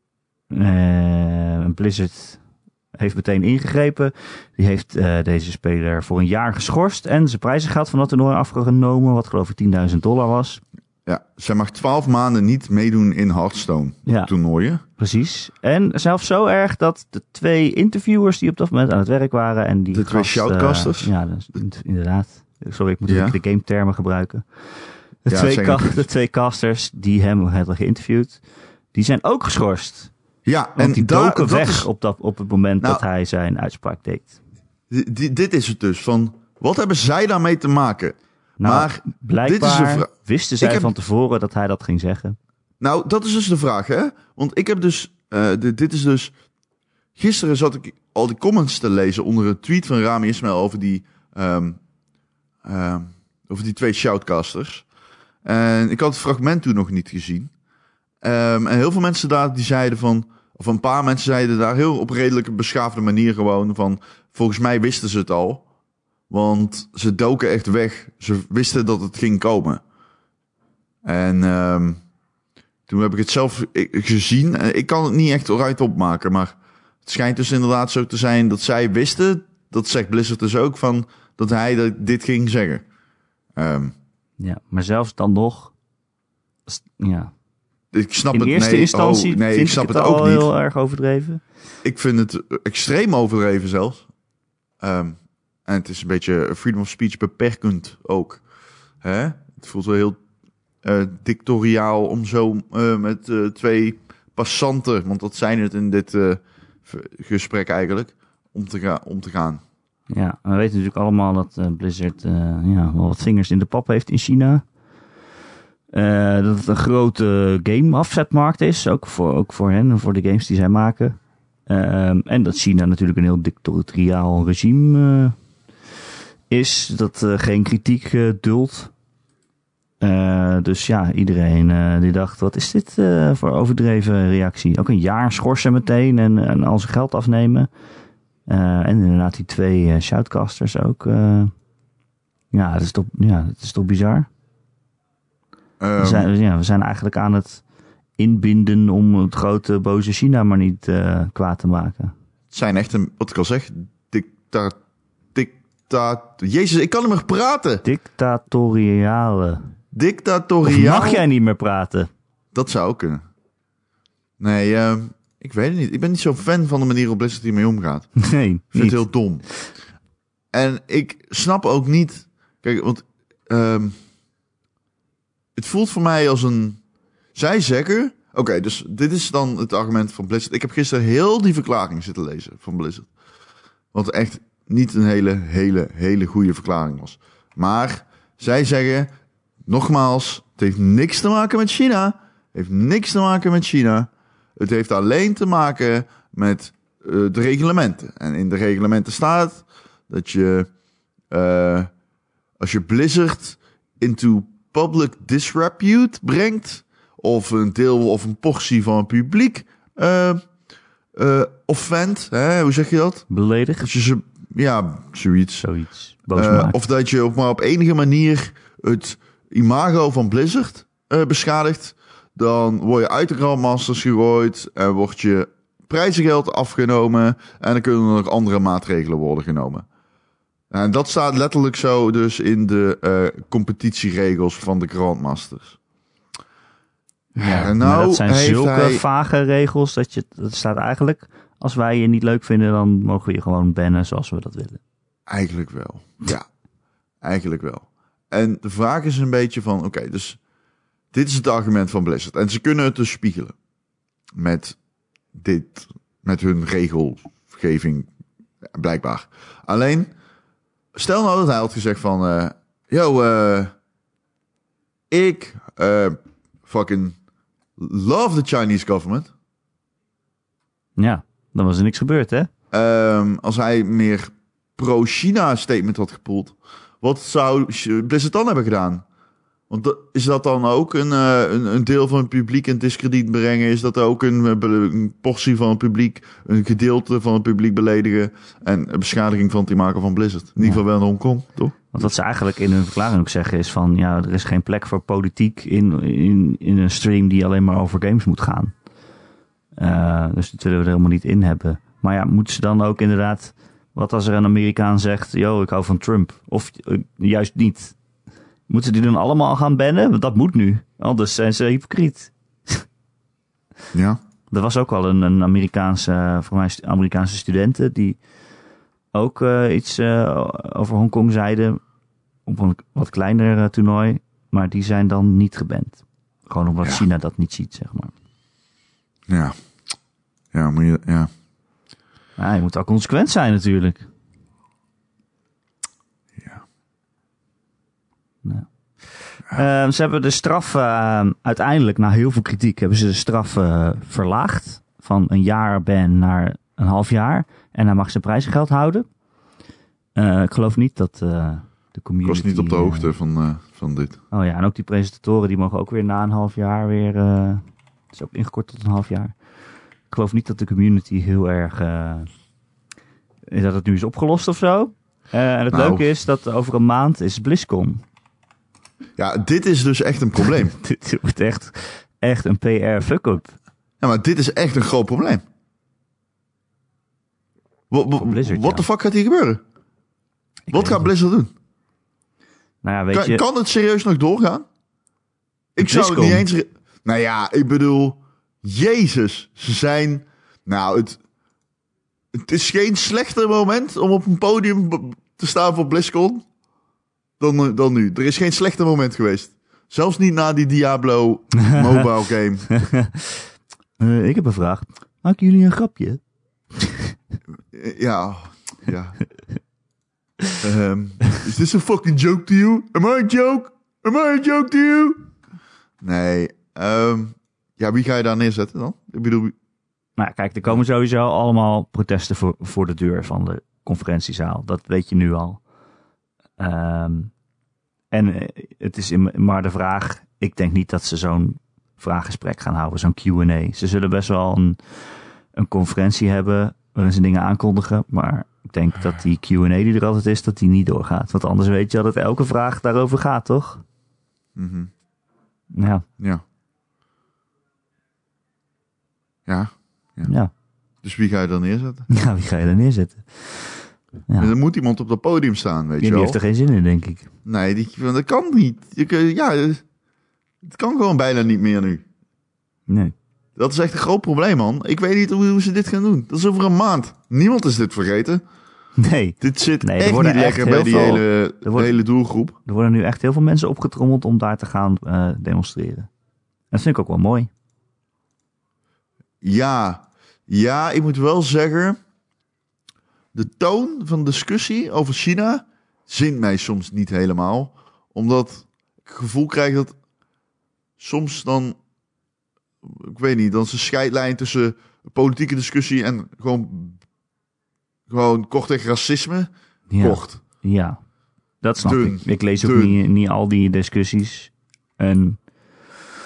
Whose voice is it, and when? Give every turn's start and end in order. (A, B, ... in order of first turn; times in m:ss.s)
0:00.5-0:02.4 A
0:03.0-0:10.6 A
0:11.1-0:14.8 B
0:14.1-0:14.3 A
0:15.0-0:24.4 A
0:19.9-0:21.1 B
0:23.1-0:23.4 B
0:25.2-0:28.4 A
0:25.3-0:26.1 B
0:28.9-0:30.1 A
0:30.4-0:31.9 B
0:30.8-0:34.4 A
0:34.9-0:40.9 B
0:38.6-0:42.4 A
0:42.8-0:46.3 B
0:47.2-0:51.8 B
0:52.6-0:54.8 B
0:55.4-0:57.5 B
0:58.2-1:05.6 B
1:06.3-1:09.8 B
1:11.0-1:12.0 B
1:12.9-1:22.8 B
1:23.6-1:23.9 B
1:24.4-1:25.7 A
1:26.7-1:27.3 A
1:27.9-1:30.5 B
1:28.3-1:31.4 A
1:31.8-1:34.1 B
1:34.8-1:38.4 B
1:39.0-1:40.2 B
1:40.8-1:49.6 B
1:50.1-1:54.6 A
1:55.9-2:01.2 A
2:01.7-2:05.4 A
2:06.5-2:08.9 A
2:10.0-2:17.7 A
2:18.5-2:21.5 A
2:22.5-2:24.3 A
2:25.8-2:26.3 B
2:26.0-2:27.6 A
2:28.2-2:32.1 A
2:32.5-2:34.8 B
2:35.4-2:37.8 B
2:37.8-2:39.7 A
2:39.9-2:41.2 B
2:40.6-2:42.1 A
2:42.5-2:43.2 B
2:44.4-2:48.1 B
2:48.2-2:49.0 A
2:48.7-2:49.5 B
2:50.5-2:54.0 B
2:55.6-2:56.8 B
2:57.4-3:03.1 B
3:03.9-3:09.1 B
3:09.7-3:20.7 B
3:21.3-3:21.9 B
3:22.6-3:30.4 B
3:31.2-3:33.3 B
3:33.3-3:33.9 A
3:33.8-3:35.7 B
3:35.6-3:36.8 A
3:36.3-3:49.8 B
3:50.7-3:55.8 B
3:57.4-3:59.0 B
3:57.4-4:04.8 A
4:05.3-4:06.5 B
4:07.2-4:10.4 B
4:11.1-4:13.5 B
4:14.4-4:14.8 B
4:15.3-4:18.1 B
4:18.7-4:20.1 B
4:21.0-4:23.7 B
4:25.1-4:27.2 B
4:27.8-4:29.3 B
4:31.0-4:32.5 A
4:32.7-4:39.0 B
4:39.7-4:52.1 B
4:51.9-4:58.7 A
4:59.8-5:08.0 A
5:08.7-5:12.8 A
5:13.9-5:14.2 B
5:14.5-5:18.2 A
5:19.1-5:21.8 A
5:22.5-5:28.1 A
5:29.3-5:29.6 B
5:30.5-5:31.3 B
5:32.4-5:34.0 A
5:38.4-5:49.1 A
5:50.2-5:53.1 A
5:52.2-5:54.2 B
5:54.3-5:59.4 A
6:00.1-6:02.3 A
6:03.5-6:08.0 A
6:05.7-6:06.0 B
6:09.2-6:10.8 B
6:10.4-6:13.6 A
6:14.0-6:15.4 B
6:17.9-6:19.6 B
6:18.2-6:18.9 A
6:20.7-6:21.1 A
6:20.7-6:21.5 B
6:22.8-6:23.4 A
6:23.1-6:24.7 B
6:25.8-6:31.2 B
6:25.8-6:26.5 A
6:32.3-6:36.4 B
6:37.4-6:42.7 B
6:41.6-6:42.0 A
6:42.7-6:43.4 A
6:44.0-6:46.2 A
6:46.8-6:47.1 A
6:47.7-6:49.2 B
6:50.6-6:55.2 B
6:56.0-6:59.6 B
7:00.2-7:05.6 A
7:06.6-7:07.3 A
7:08.1-7:14.8 A
7:15.6-7:23.8 A
7:24.6-7:24.9 B
7:25.7-7:26.1 A
7:29.5-7:30.3 B
7:30.2-7:30.5 A
7:31.0-7:32.1 B
7:32.1-7:34.5 A
7:34.4-7:36.4 B
7:36.0-7:37.3 A
7:37.4-7:39.8 B
7:40.6-7:42.0 B
7:42.9-7:43.1 A
7:43.6-7:48.4 B
7:49.0-7:52.0 A
7:49.4-7:52.6 B
7:52.7-7:56.1 A
7:56.7-7:57.5 A
7:59.4-8:02.0 B
8:03.3-8:09.9 B
8:11.0-8:11.8 B
8:12.8-8:17.0 B
8:18.1-8:20.4 B
8:19.9-8:21.0 A
8:21.6-8:25.4 A
8:21.8-8:23.0 B